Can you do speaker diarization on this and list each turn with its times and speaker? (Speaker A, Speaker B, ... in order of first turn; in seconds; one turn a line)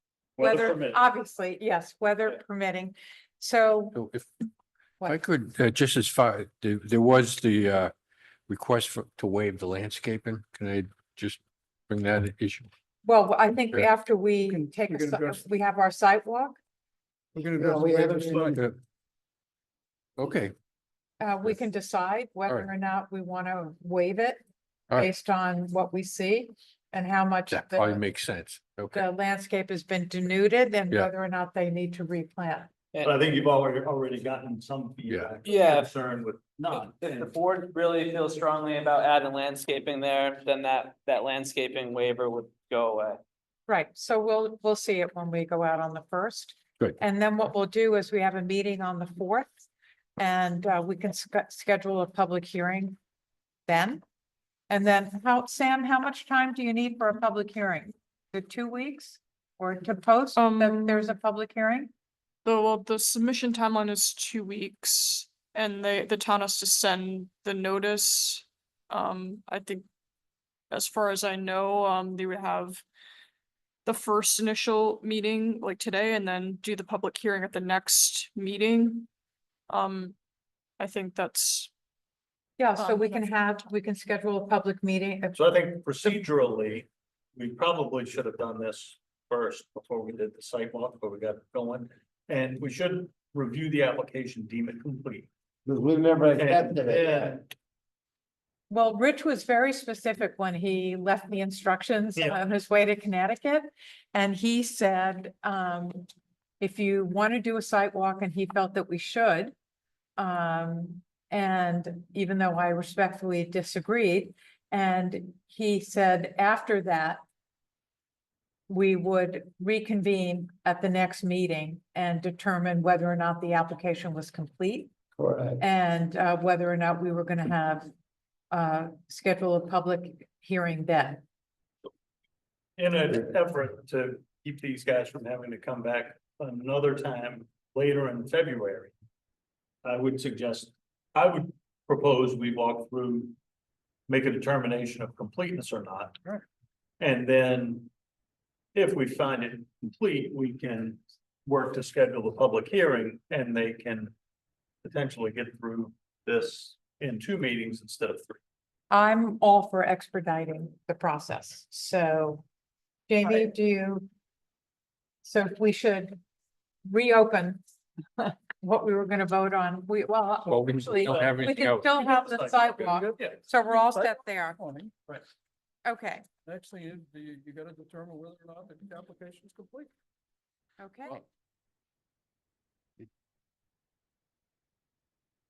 Speaker A: 0.3-1.0
Speaker B: 0.4-4.0
Speaker C: 3.9-4.3
Speaker C: 5.0-7.9
Speaker C: 8.5-12.7
Speaker B: 13.0-16.6
Speaker D: 14.4-15.4
Speaker E: 17.4-18.6
Speaker D: 17.4-18.6
Speaker C: 20.2-20.5
Speaker B: 21.2-24.4
Speaker B: 24.9-28.0
Speaker C: 27.5-29.1
Speaker B: 28.9-32.7
Speaker A: 33.0-37.4
Speaker C: 35.1-35.3
Speaker F: 35.4-35.9
Speaker F: 36.7-43.2
Speaker B: 43.7-49.5
Speaker B: 50.2-53.0
Speaker B: 53.7-54.0
Speaker B: 54.7-61.9
Speaker G: 60.4-61.1
Speaker G: 62.4-69.8
Speaker G: 70.7-72.8
Speaker G: 73.8-79.1
Speaker G: 79.7-80.2
Speaker G: 80.8-81.7
Speaker B: 82.6-85.4
Speaker G: 82.8-83.2
Speaker A: 85.3-95.3
Speaker E: 95.7-97.3
Speaker A: 96.3-97.4
Speaker B: 98.7-106.1
Speaker B: 106.6-109.5
Speaker B: 110.2-117.2
Speaker B: 118.7-124.9
Speaker E: 125.2-125.6
Speaker B: 125.6-127.9
Speaker B: 128.5-131.2
Speaker A: 132.8-138.9
Speaker A: 139.8-143.3
Speaker A: 144.1-146.2
Speaker A: 147.0-147.9
Speaker A: 148.7-154.1
Speaker A: 154.8-158.4
Speaker B: 158.9-162.4
Speaker B: 163.1-164.1
Speaker B: 165.2-166.2
Speaker B: 166.8-167.6
Speaker B: 168.2-174.6
Speaker C: 170.4-171.9
Speaker A: 171.0-173.4
Speaker D: 172.8-174.9
Speaker B: 175.8-176.2
Speaker D: 176.4-179.9
Speaker B: 180.8-181.2